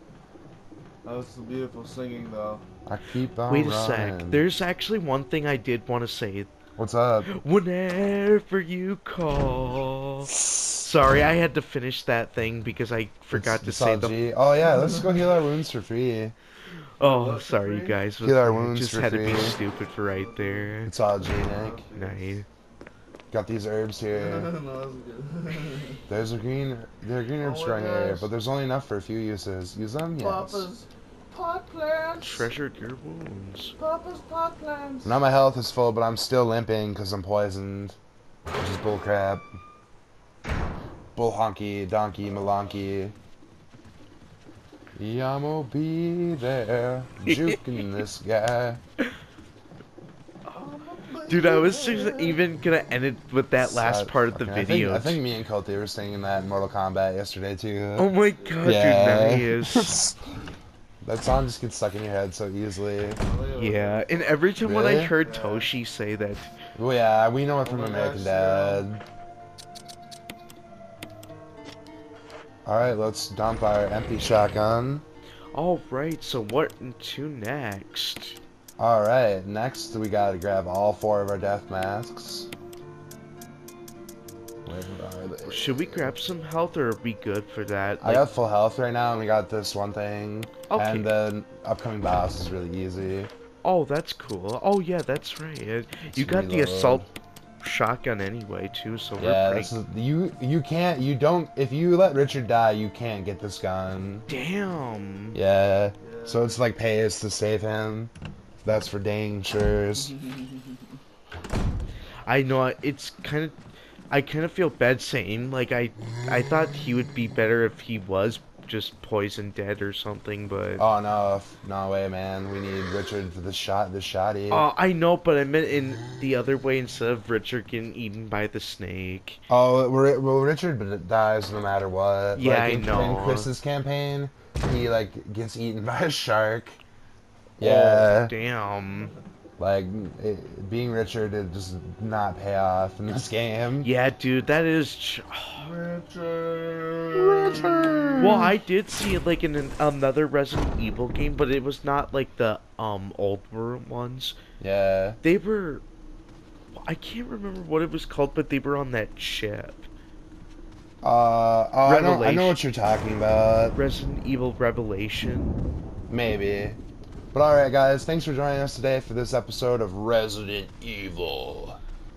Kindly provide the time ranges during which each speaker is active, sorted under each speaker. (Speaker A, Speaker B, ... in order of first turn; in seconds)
Speaker A: 1.0-2.6, 17.0-18.0, 20.0-20.7, 21.3-22.4, 24.1-26.0, 27.4-28.3, 30.2-32.5, 33.8-35.2, 50.5-52.4, 58.3-58.9, 63.2-64.6, 65.1-65.7, 67.6-68.9, 106.0-106.6, 110.0-111.0, 145.6-148.1
Speaker B: 2.9-4.4, 6.8-7.3, 10.3-10.9, 13.3-16.3, 18.2-19.6, 20.8-21.9, 23.3-24.5, 26.1-30.7, 35.0-38.0, 38.6-39.4, 41.1-43.1, 45.0-48.8, 53.6-58.1, 58.6-60.2, 61.0-63.2, 64.6-65.1, 66.7-69.0, 72.6-75.0, 78.8-82.5, 84.6-86.1, 88.0-93.3, 96.1-97.1, 99.2-104.3, 105.3-108.1, 108.6-110.2, 120.8-124.7, 129.5-136.8, 137.6-138.3, 139.6-143.9, 147.1-148.5, 154.6-155.2, 161.0-163.8, 166.1-166.8, 167.3-171.8
Speaker C: 3.5-6.5, 7.2-14.2, 17.0-20.9, 21.9-22.4, 32.2-33.7, 47.3-47.5, 51.3-55.2, 58.0-60.0, 63.5-66.5, 75.5-78.4, 85.4-88.2, 90.7-91.1, 93.6-97.1, 97.6-99.7, 104.3-105.4, 112.2-113.5, 114.1-120.8, 124.5-129.4, 132.3-133.5, 137.6-139.1, 143.8-145.7, 148.2-154.3, 155.2-155.8, 156.8-159.9, 161.8-162.6, 163.7-165.6